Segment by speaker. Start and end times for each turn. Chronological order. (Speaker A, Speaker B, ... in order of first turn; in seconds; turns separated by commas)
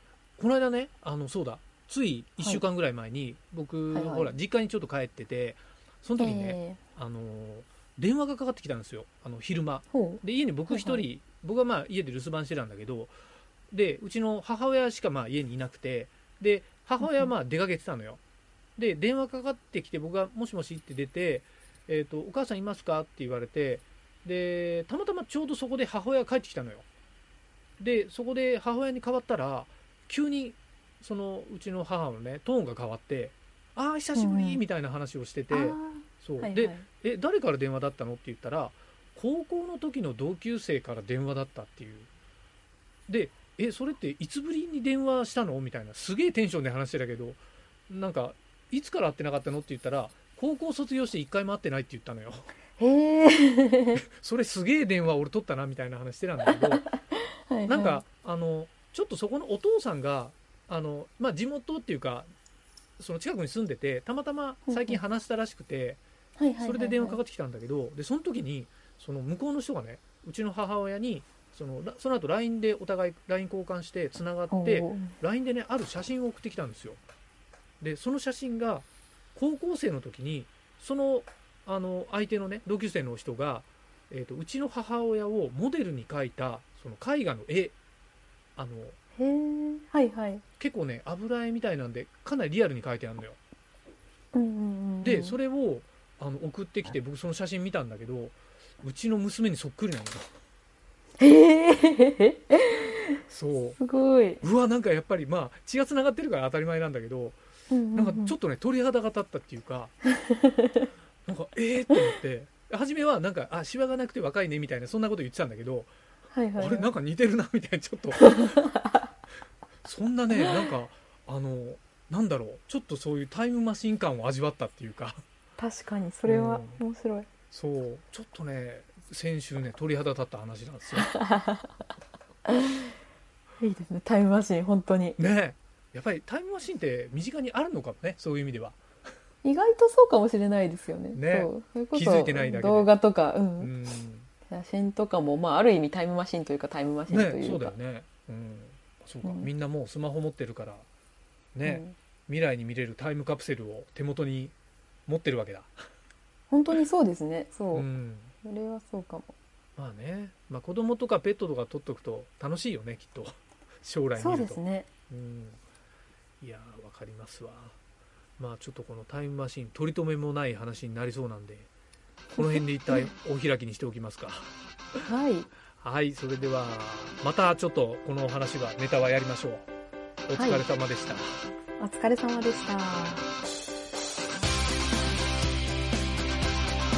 Speaker A: 0.4-13.1, Speaker B: 3.9-4.3, Speaker B: 6.2-6.8, Speaker B: 9.9-11.0, Speaker A: 13.7-18.2, Speaker B: 17.0-17.3, Speaker A: 18.8-26.9, Speaker A: 27.8-42.1, Speaker B: 34.1-34.6, Speaker B: 35.5-36.9, Speaker A: 43.1-52.5, Speaker B: 52.8-54.0, Speaker A: 54.0-56.9, Speaker B: 57.5-58.0, Speaker A: 57.7-62.3, Speaker A: 63.0-66.0, Speaker B: 64.7-65.0, Speaker B: 66.4-67.2, Speaker A: 66.6-77.0, Speaker B: 74.5-75.1, Speaker A: 77.8-87.7, Speaker A: 88.6-89.0, Speaker B: 89.2-90.4, Speaker A: 90.6-93.4, Speaker B: 94.3-95.4, Speaker A: 95.0-100.3, Speaker B: 101.2-103.2, Speaker A: 103.2-103.8, Speaker B: 103.8-104.4, Speaker A: 104.4-107.4, Speaker B: 107.7-108.3, Speaker A: 107.9-109.9, Speaker B: 110.2-110.9, Speaker A: 111.2-115.9, Speaker B: 116.3-116.9, Speaker A: 116.6-118.6, Speaker B: 118.2-119.1, Speaker A: 119.8-125.2, Speaker B: 125.6-127.3, Speaker A: 126.2-126.8, Speaker A: 127.5-131.1, Speaker B: 131.0-131.7, Speaker B: 132.4-132.9, Speaker B: 133.6-135.2, Speaker A: 135.2-138.8, Speaker B: 139.4-143.7, Speaker A: 141.1-142.9, Speaker A: 143.6-144.3, Speaker B: 144.5-147.7, Speaker A: 147.1-150.9, Speaker B: 149.2-149.5, Speaker A: 151.5-154.5, Speaker B: 151.6-151.9, Speaker A: 155.1-155.8, Speaker B: 156.5-157.9, Speaker A: 157.7-158.3, Speaker B: 158.4-159.3, Speaker A: 159.8-165.6, Speaker B: 164.2-164.9, Speaker A: 166.4-167.8, Speaker A: 168.4-171.7, Speaker A: 172.3-174.5, Speaker B: 172.4-173.1, Speaker B: 175.1-175.5, Speaker A: 175.7-179.7, Speaker A: 180.2-181.4, Speaker B: 180.3-180.6, Speaker B: 181.8-183.2